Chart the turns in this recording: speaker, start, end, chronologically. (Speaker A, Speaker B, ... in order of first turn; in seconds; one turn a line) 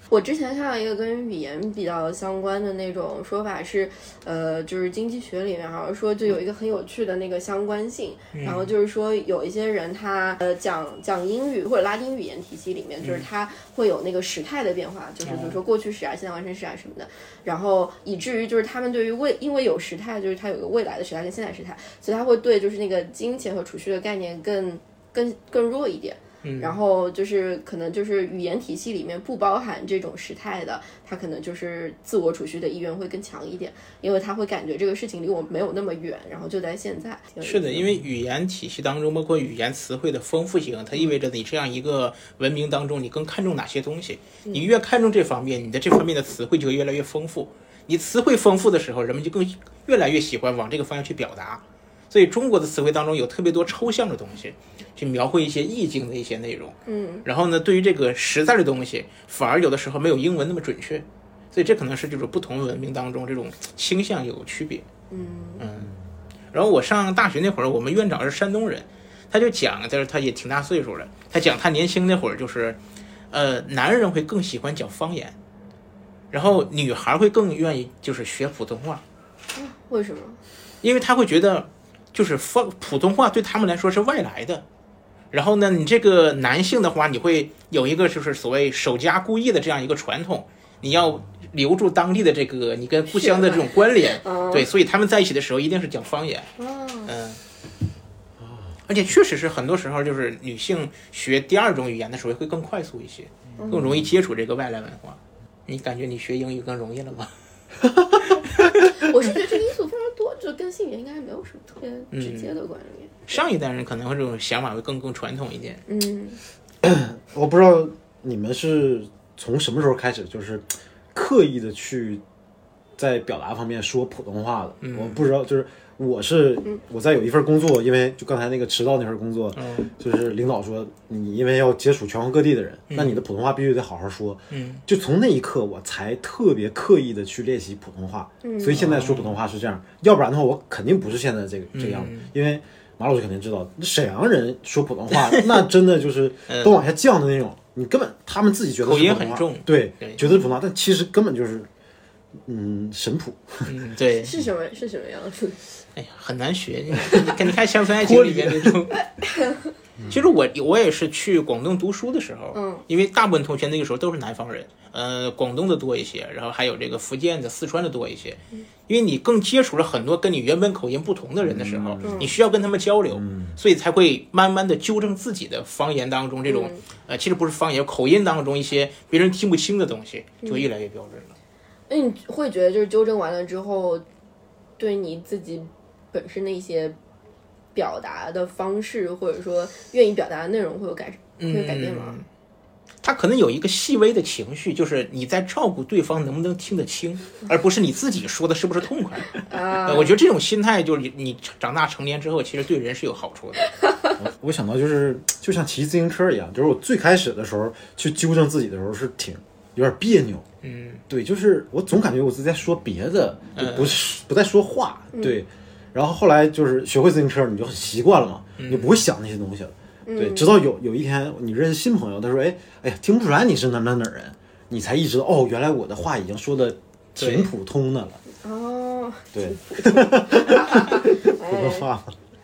Speaker A: 0.1-38.0
Speaker B: 8.3-8.7
Speaker B: 15.2-15.6
Speaker B: 26.4-26.8
Speaker B: 37.4-64.8
Speaker A: 56.9-57.2
Speaker A: 65.1-65.6
Speaker B: 65.6-65.9
Speaker B: 66.5-72.8
Speaker B: 73.3-75.3
Speaker B: 76.3-79.0
Speaker A: 79.5-80.4
Speaker B: 80.8-84.6
Speaker B: 85.3-96.5
Speaker A: 93.1-93.7
Speaker A: 94.2-94.7
Speaker A: 96.6-97.1
Speaker B: 97.0-97.4
Speaker C: 98.4-98.7
Speaker B: 98.9-107.3
Speaker A: 103.6-103.9
Speaker C: 103.7-104.0
Speaker A: 108.9-113.4
Speaker B: 112.1-112.5
Speaker B: 113.3-115.8
Speaker A: 115.9-116.4
Speaker C: 116.8-122.2
Speaker C: 123.0-151.7
Speaker B: 124.8-125.2
Speaker B: 129.6-129.9
Speaker B: 132.9-133.2
Speaker B: 134.5-134.8
Speaker A: 138.4-138.8
Speaker B: 138.7-139.4
Speaker B: 141.7-142.3
Speaker B: 146.5-146.7
Speaker B: 148.8-150.2
Speaker C: 152.4-153.7
Speaker B: 153.7-154.3
Speaker A: 154.2-155.6
Speaker B: 155.9-159.0
Speaker C: 158.0-158.7
Speaker B: 160.1-181.3
Speaker A: 162.5-162.8
Speaker C: 171.4-172.3
Speaker A: 172.0-172.3
Speaker C: 173.1-173.6
Speaker A: 176.5-176.8
Speaker A: 181.9-184.0
Speaker A: 184.8-187.0
Speaker A: 187.7-192.2
Speaker B: 191.4-192.3
Speaker B: 193.0-203.7
Speaker A: 199.4-200.2
Speaker C: 204.2-210.4
Speaker B: 210.6-211.0
Speaker C: 211.1-228.2
Speaker B: 213.6-214.0
Speaker B: 218.6-219.0
Speaker A: 220.1-220.5
Speaker B: 227.2-227.5
Speaker A: 228.4-231.9
Speaker C: 229.3-232.1